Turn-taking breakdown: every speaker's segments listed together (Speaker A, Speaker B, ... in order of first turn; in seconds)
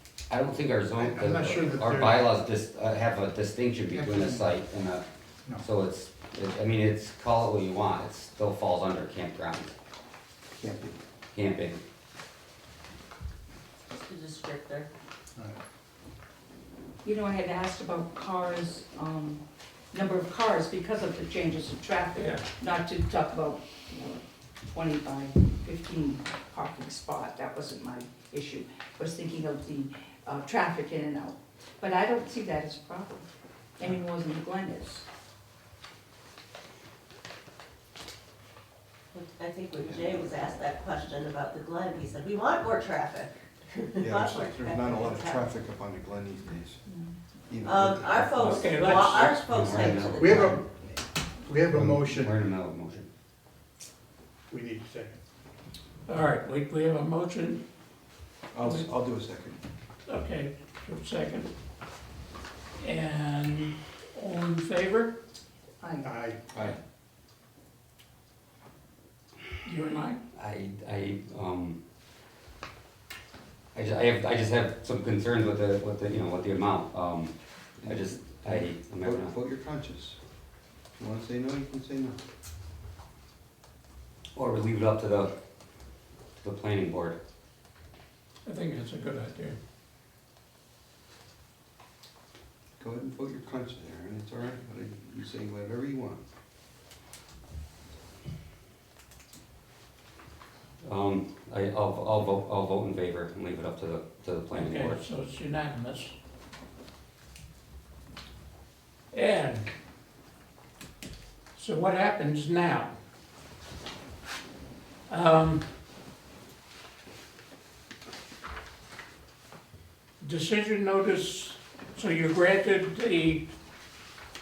Speaker A: 0.3-5.0, 5.6-9.7, 11.3-11.8, 48.4-50.7, 51.7-53.1, 70.3-71.8, 73.7-79.3, 84.3-85.3, 86.4-87.2, 100.8-105.0
Speaker B: 0.9-2.2, 3.9-4.5, 15.3-15.6, 50.2-50.6, 51.4-52.3, 54.5-55.2, 66.0-66.4
Speaker C: 10.6-10.9, 39.9-40.2, 44.0-46.8, 47.5-48.6, 58.5-59.6, 77.8-80.2, 81.0-82.2, 92.8-96.2
Speaker D: 13.9-14.9, 39.1-45.4, 47.6-50.5
Speaker E: 17.0-33.3, 33.8-35.1, 65.8-66.1
Speaker F: 22.1-22.4, 48.8-49.4, 56.1-57.6, 60.0-61.5, 62.8-65.1, 69.6-70.2, 88.4-89.6, 104.5-106.2, 109.1-109.7, 111.5-113.0, 115.1-115.6, 120.2-123.5